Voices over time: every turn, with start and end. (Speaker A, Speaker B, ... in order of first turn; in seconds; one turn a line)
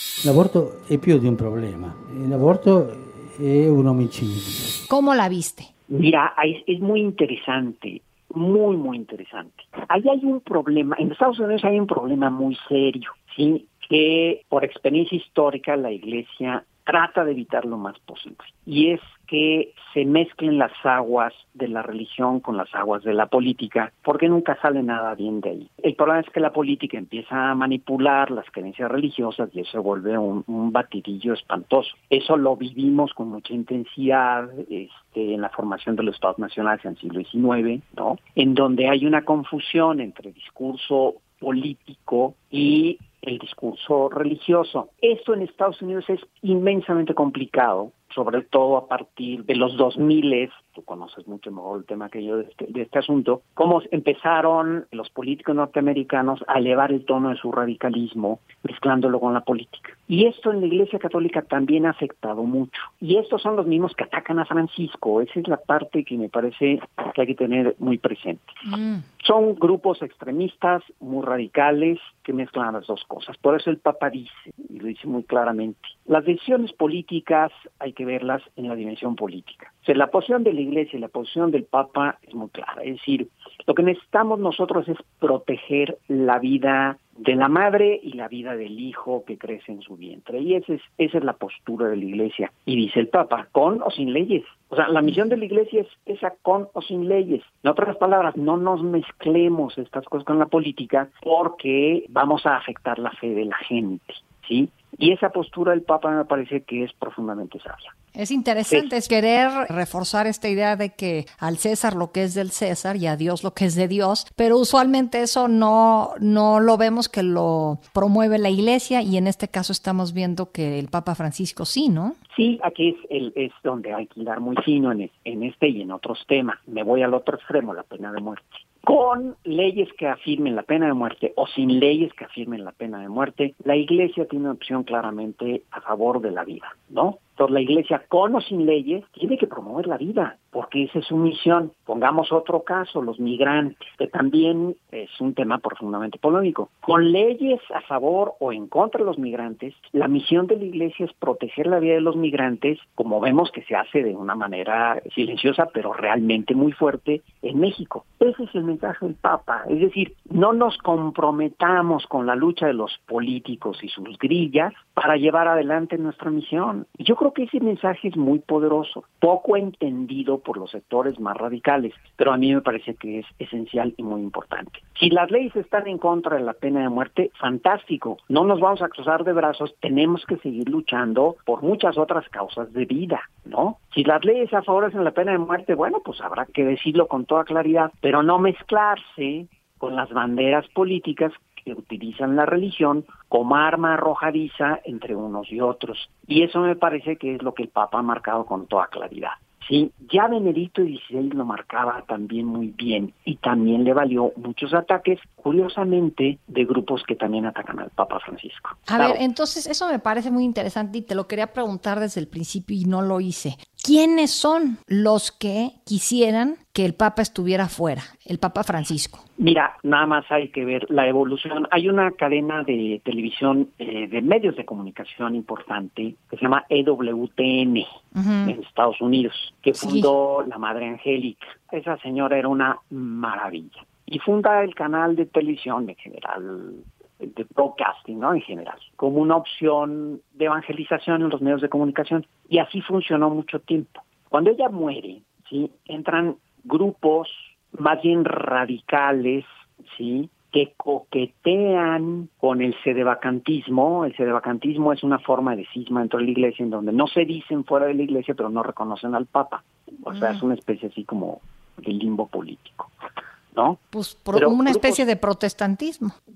Speaker A: 0.2-4.8
Speaker B: 4.9-5.7
Speaker C: 5.9-68.6
Speaker B: 68.7-69.0
Speaker C: 69.2-107.9
Speaker B: 108.2-122.2
Speaker C: 122.3-209.2
Speaker B: 208.9-219.2
Speaker C: 219.4-227.9
Speaker B: 228.2-228.6
Speaker C: 228.4-262.9
Speaker B: 229.8-230.1
Speaker B: 260.1-260.4
Speaker C: 263.5-263.8
Speaker B: 263.9-266.1
Speaker C: 264.3-265.0